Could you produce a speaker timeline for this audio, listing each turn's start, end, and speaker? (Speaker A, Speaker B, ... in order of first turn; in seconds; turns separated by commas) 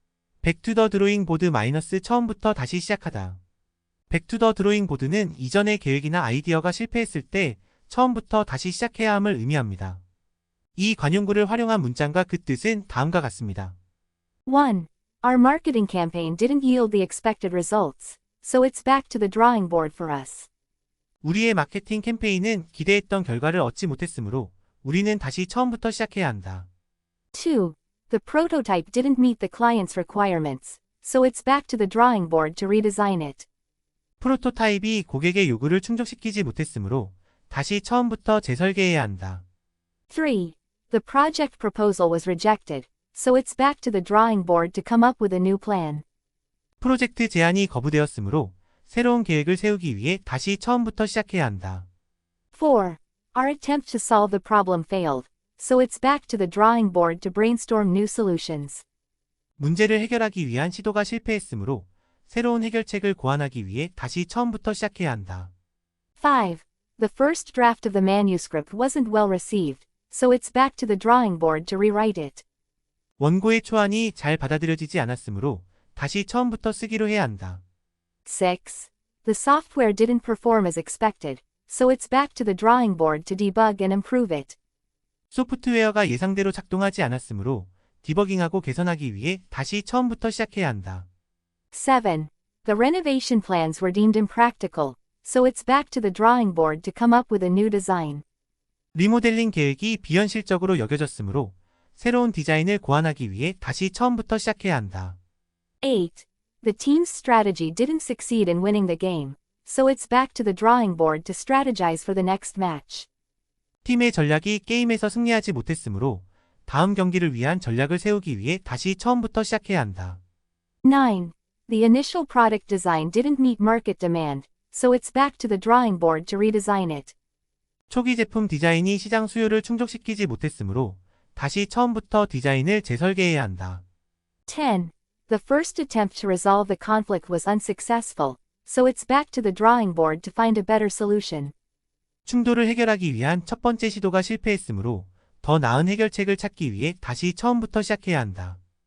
Speaker A: 0.4-3.4, Speaker A: 4.1-10.0, Speaker A: 10.8-13.8, Speaker B: 14.5-20.5, Speaker A: 21.2-26.7, Speaker B: 27.3-33.5, Speaker A: 34.2-39.4, Speaker B: 40.1-46.0, Speaker A: 46.8-51.9, Speaker B: 52.5-58.8, Speaker A: 59.6-65.5, Speaker B: 66.2-72.4, Speaker A: 73.2-77.6, Speaker B: 78.2-84.5, Speaker A: 85.3-91.1, Speaker B: 91.7-98.2, Speaker A: 98.9-105.2, Speaker B: 105.8-113.1, Speaker A: 113.8-120.2, Speaker B: 120.8-127.1, Speaker A: 127.9-133.8, Speaker B: 134.5-141.5, Speaker A: 142.2-148.6